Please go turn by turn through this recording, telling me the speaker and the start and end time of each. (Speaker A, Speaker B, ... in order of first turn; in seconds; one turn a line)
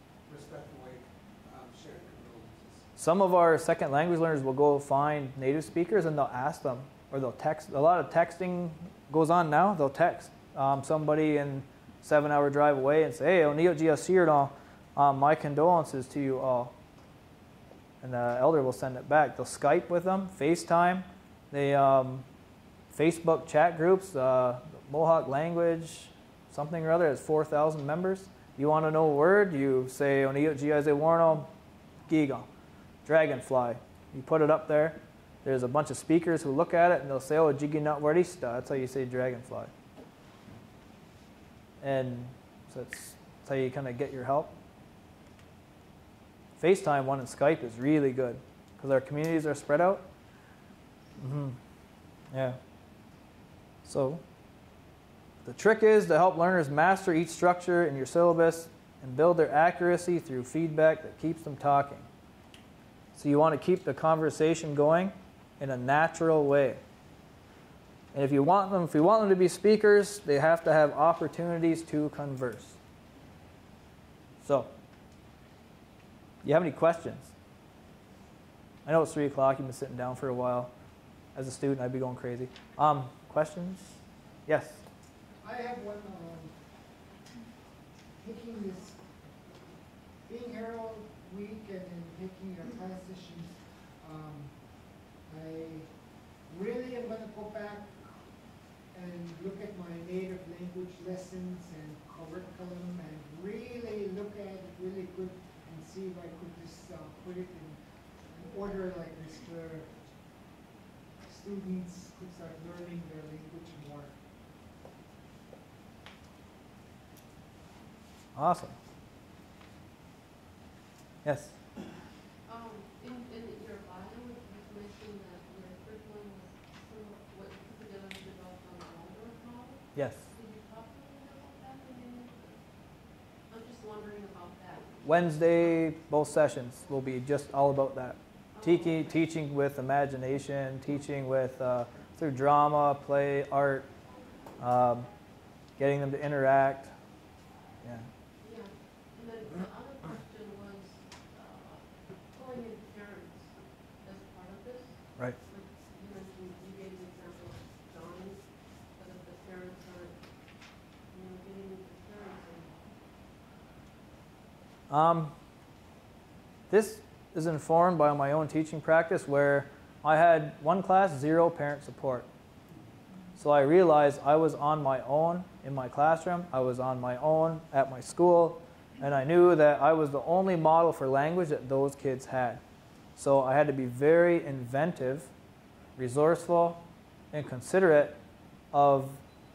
Speaker A: 0.3-2.9
Speaker B: 3.0-16.7
Speaker B: 18.0-22.2
Speaker B: 22.9-31.5
Speaker B: 32.1-32.5
Speaker B: 33.0-39.7
Speaker B: 41.8-44.6
Speaker B: 46.6-50.1
Speaker B: 51.2-51.6
Speaker B: 52.3-52.6
Speaker B: 53.9-54.2
Speaker B: 55.4-62.1
Speaker B: 63.1-66.8
Speaker B: 68.1-72.8
Speaker B: 74.4-74.7
Speaker B: 76.4-77.3
Speaker B: 78.8-80.7
Speaker B: 81.3-84.8
Speaker C: 85.4-86.5
Speaker C: 88.2-89.0
Speaker C: 90.3-94.5
Speaker C: 95.3-95.9
Speaker C: 96.5-98.2
Speaker C: 98.9-109.9
Speaker C: 111.2-114.1
Speaker B: 118.3-118.8
Speaker B: 121.2-121.6
Speaker D: 122.5-132.6
Speaker B: 129.9-130.2
Speaker D: 133.5-135.3
Speaker B: 135.1-143.9
Speaker D: 138.6-139.1
Speaker B: 144.6-145.1
Speaker B: 145.8-146.9
Speaker D: 148.4-153.5
Speaker D: 154.0-158.4
Speaker D: 158.9-160.2
Speaker D: 161.1-162.9
Speaker B: 164.9-165.3
Speaker B: 166.7-172.3
Speaker B: 173.4-182.6
Speaker B: 183.2-185.3
Speaker B: 186.0-188.2
Speaker B: 188.7-189.2